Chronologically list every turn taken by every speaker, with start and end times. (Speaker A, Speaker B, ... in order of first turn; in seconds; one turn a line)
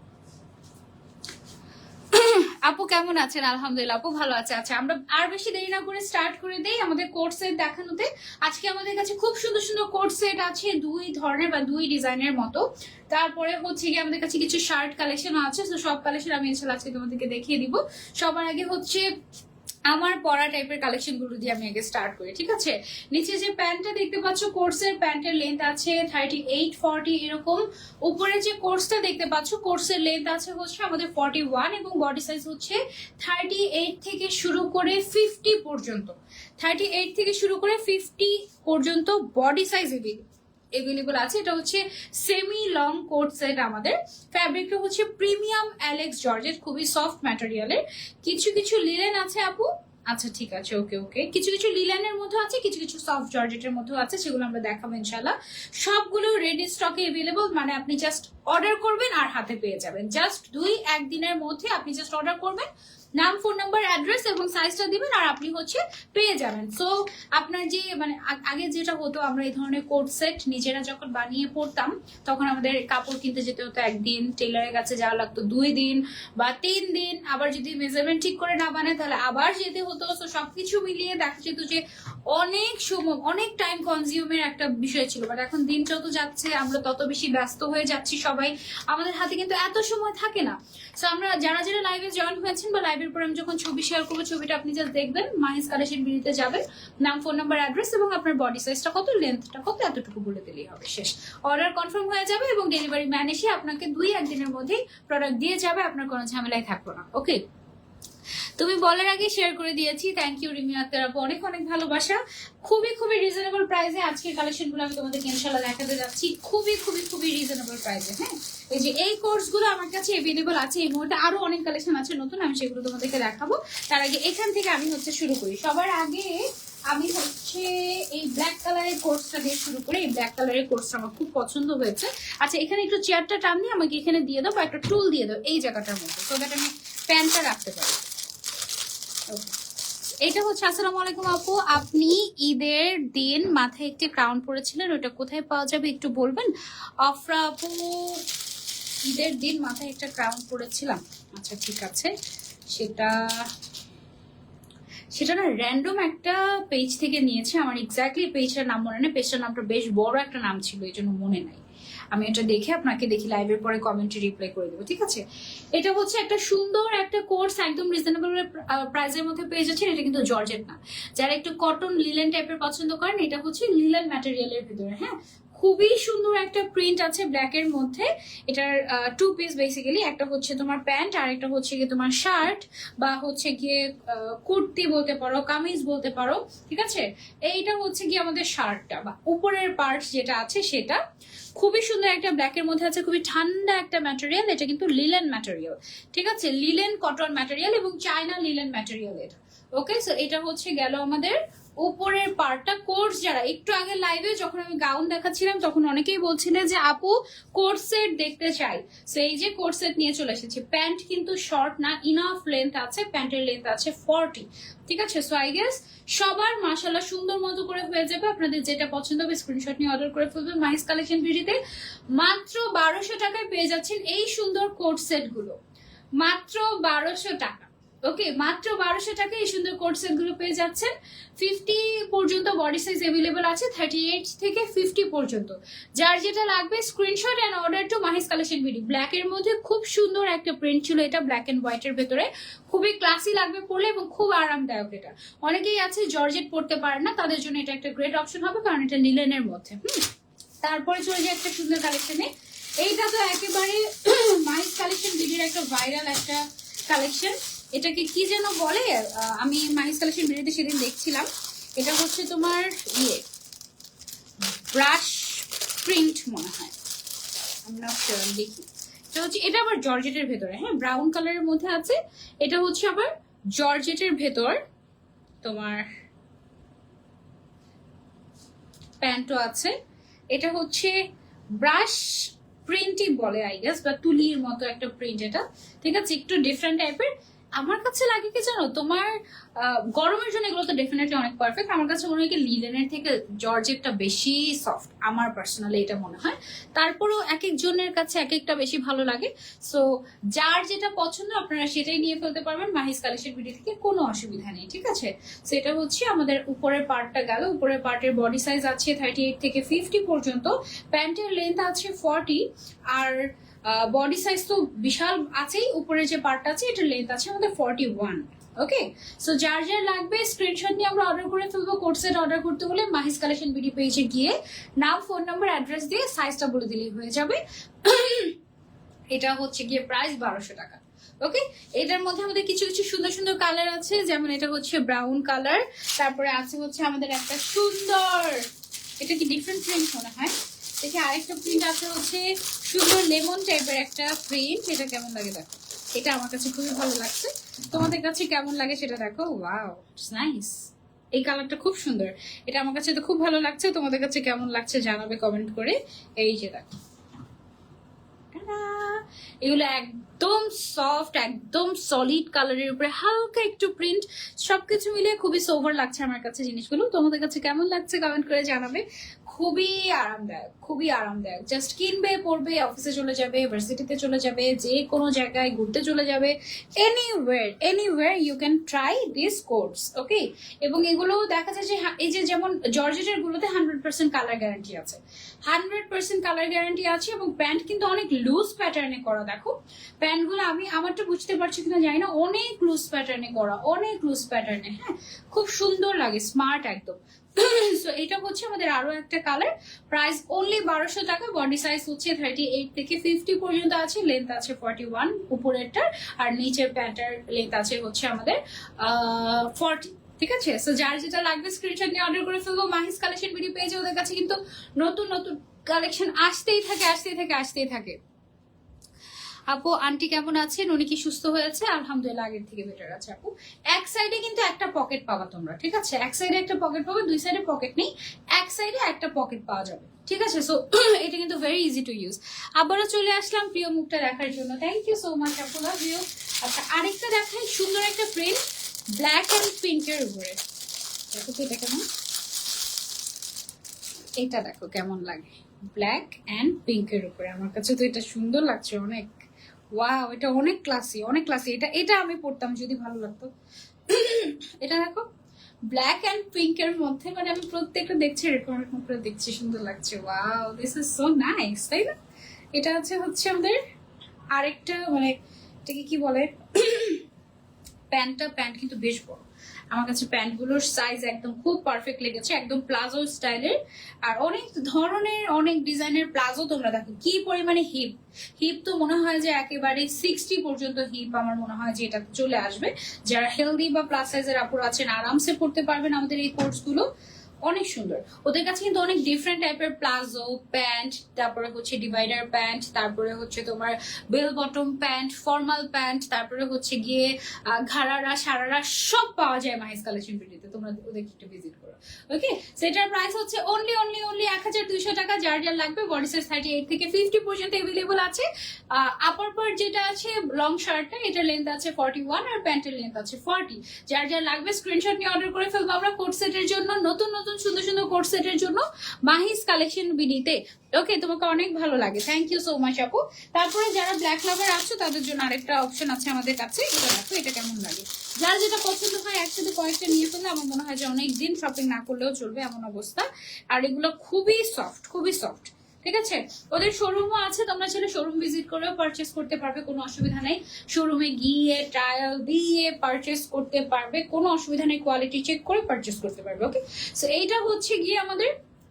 Speaker A: 2.1-19.1
Speaker A: 19.9-107.4
Speaker A: 108.6-138.1
Speaker A: 139.3-139.6
Speaker A: 140.2-146.5
Speaker A: 147.0-148.2
Speaker A: 149.1-152.1
Speaker A: 152.7-153.5
Speaker A: 155.1-165.2
Speaker A: 165.8-191.0
Speaker A: 191.6-221.6
Speaker A: 222.2-225.6
Speaker A: 226.2-250.1
Speaker A: 250.6-252.3
Speaker A: 252.8-263.2
Speaker A: 264.6-266.8
Speaker A: 267.6-274.6
Speaker A: 275.4-275.9
Speaker A: 279.0-279.8
Speaker A: 280.3-281.0
Speaker A: 281.5-328.4
Speaker A: 329.1-338.5
Speaker A: 339.0-356.8
Speaker A: 358.3-418.0
Speaker A: 419.5-438.4
Speaker A: 438.9-440.4
Speaker A: 441.1-441.8
Speaker A: 444.2-449.2
Speaker A: 449.7-453.3
Speaker A: 453.9-455.1
Speaker A: 455.7-461.9
Speaker A: 462.6-463.6
Speaker A: 464.3-467.0
Speaker A: 467.9-486.9
Speaker A: 487.4-548.3